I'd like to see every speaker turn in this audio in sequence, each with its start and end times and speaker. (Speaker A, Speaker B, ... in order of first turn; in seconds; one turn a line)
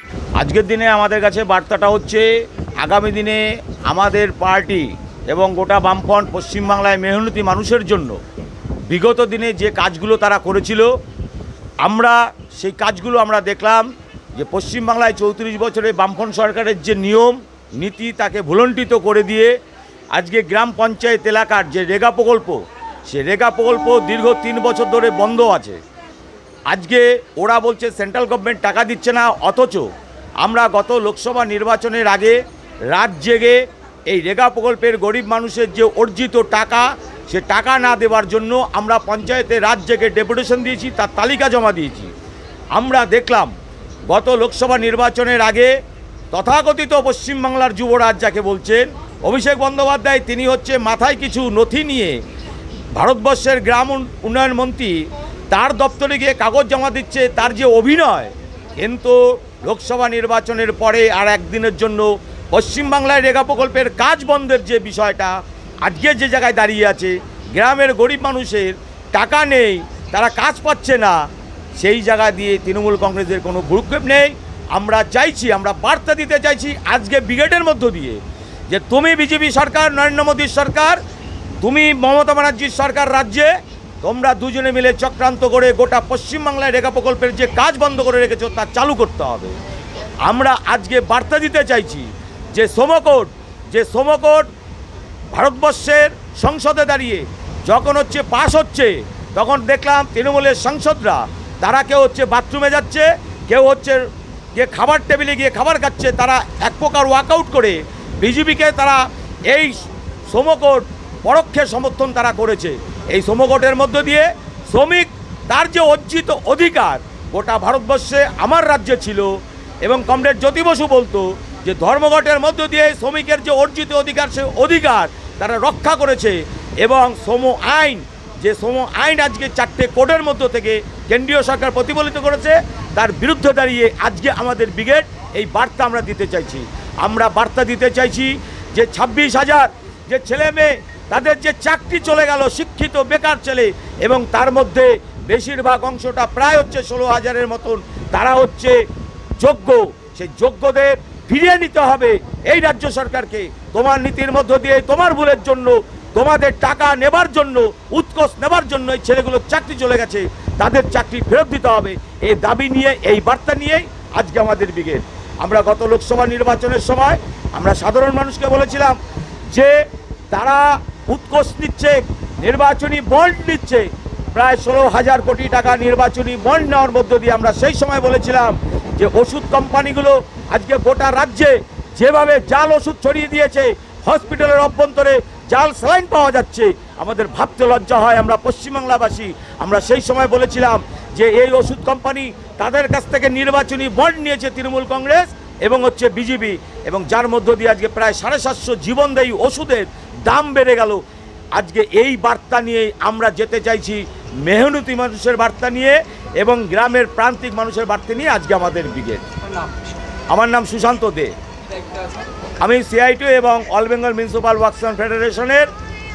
Speaker A: 0.4-2.3
Speaker A: 2.8-8.2
Speaker A: 8.9-10.9
Speaker A: 11.8-13.9
Speaker A: 14.4-19.5
Speaker A: 20.1-25.8
Speaker A: 26.7-29.9
Speaker A: 30.4-32.4
Speaker A: 32.9-42.1
Speaker A: 42.8-43.5
Speaker A: 44.1-45.7
Speaker A: 46.3-52.2
Speaker A: 53.0-55.0
Speaker A: 55.5-71.2
Speaker A: 71.8-81.0
Speaker A: 81.6-83.5
Speaker A: 84.0-89.6
Speaker A: 90.2-94.5
Speaker A: 95.3-104.0
Speaker A: 104.5-119.3
Speaker A: 119.8-148.8
Speaker A: 149.4-169.0
Speaker A: 169.5-169.8
Speaker A: 170.3-201.0
Speaker A: 201.6-209.3
Speaker A: 210.3-211.3
Speaker A: 212.6-215.7